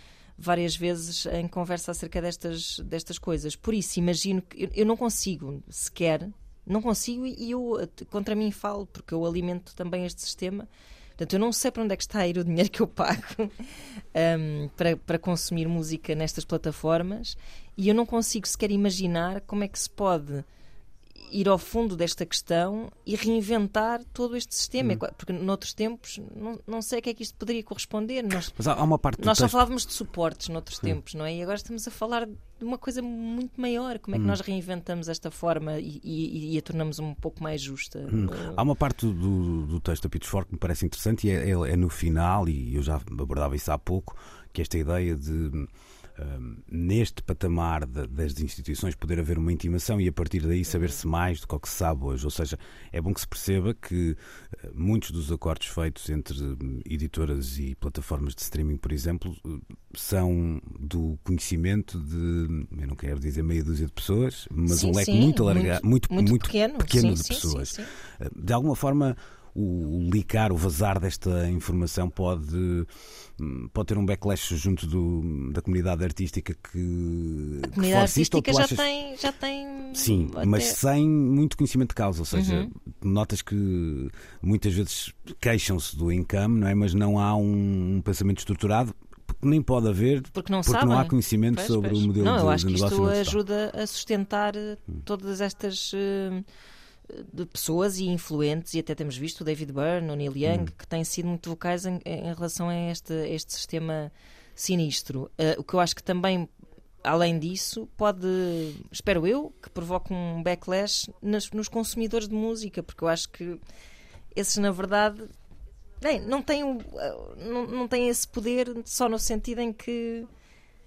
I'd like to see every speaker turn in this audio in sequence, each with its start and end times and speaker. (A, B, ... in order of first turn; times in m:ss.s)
0:00.4-0:20.5 A
0:21.2-0:28.5 A
0:28.5-0:29.6 B
0:29.2-0:38.6 A
0:38.1-1:18.8 B
1:04.7-1:07.9 A
1:17.6-1:20.8 A
1:19.9-1:33.4 B
1:22.3-1:22.7 A
1:30.3-1:36.4 A
1:37.1-1:46.5 A
1:47.0-1:53.6 A
1:54.4-1:55.3 A
1:56.0-2:00.3 A